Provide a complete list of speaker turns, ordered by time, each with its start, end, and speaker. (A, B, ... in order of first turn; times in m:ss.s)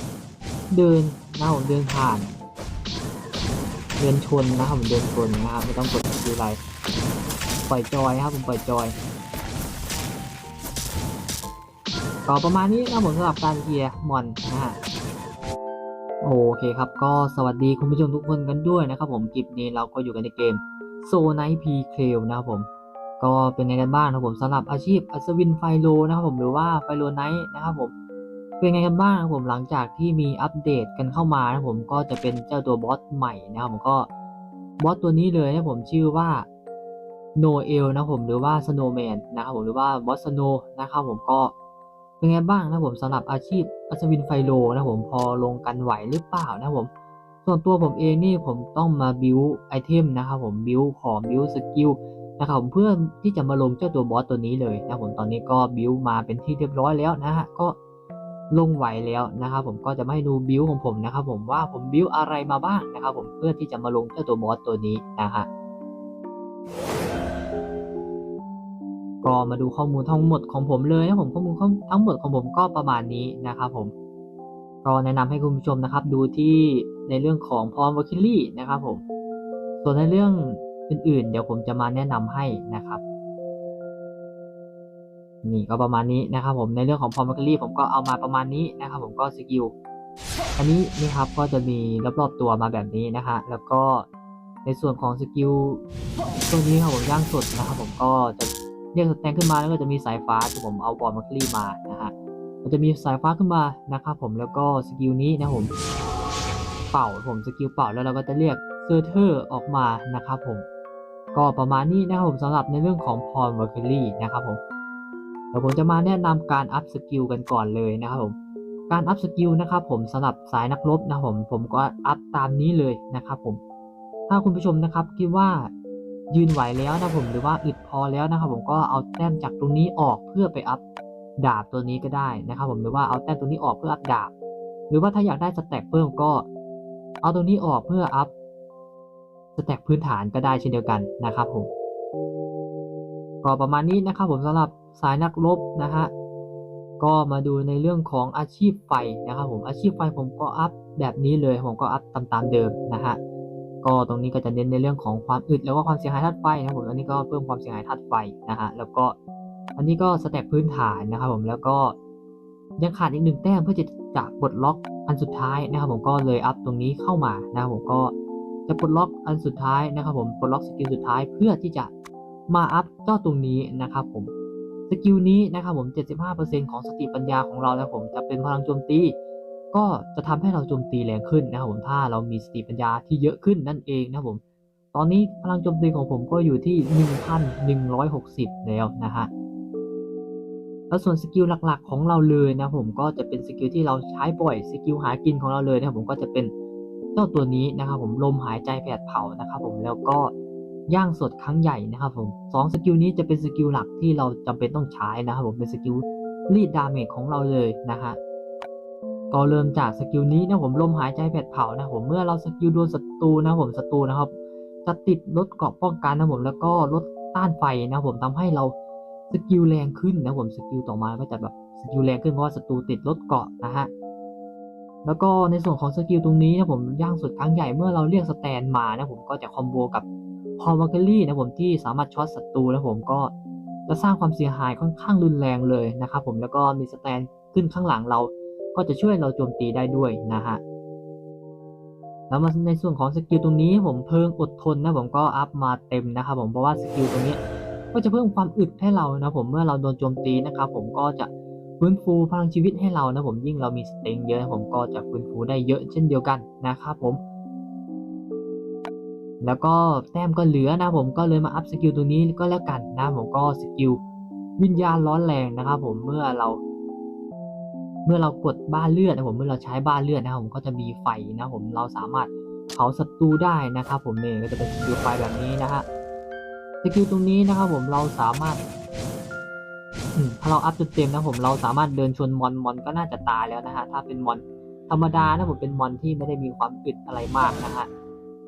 0:00.7-0:02.3 A
0:04.0-0:06.6 A
0:07.7-0:08.9 A
0:12.2-0:14.8 A
0:16.2-0:22.7 A
0:23.2-0:27.9 A
0:28.6-0:34.1 A
0:34.8-0:36.4 A
0:37.4-0:41.5 A
0:42.2-0:46.9 A
0:47.4-0:57.7 A
0:58.5-1:05.5 A
1:09.2-1:13.9 A
1:14.8-1:19.0 A
1:19.8-1:23.0 A
1:25.4-1:29.7 A
1:30.6-1:34.0 A
1:34.6-1:35.8 A
1:36.4-1:42.1 A
1:42.6-1:45.7 A
1:46.9-1:50.6 A
1:51.3-1:54.6 A
1:55.5-1:58.3 A
1:58.9-2:03.6 A
2:04.3-2:05.7 A
2:06.3-2:10.8 A
2:11.4-2:14.3 A
2:14.9-2:16.4 A
2:17.2-2:18.3 A
2:19.6-2:21.7 A
2:23.4-2:26.1 A
2:27.0-2:33.2 A
2:33.8-2:39.1 A
2:39.8-2:41.9 A
2:42.8-2:48.1 A
2:48.7-2:51.9 A
2:52.5-2:54.3 A
2:54.9-2:59.1 A
2:59.7-3:04.4 A
3:04.9-3:09.3 A
3:10.9-3:16.5 A
3:17.1-3:20.3 A
3:20.9-3:28.2 A
3:29.3-3:34.3 A
3:34.8-3:38.7 A
3:39.3-3:43.9 A
3:45.0-3:50.0 A
3:50.6-3:53.3 A
3:53.9-4:00.6 A
4:02.3-4:07.4 A
4:07.9-4:11.3 A
4:11.8-4:17.2 A
4:19.4-4:24.0 A
4:24.6-4:26.6 A
4:28.0-4:35.8 A
4:36.8-4:38.6 A
4:40.1-4:47.9 A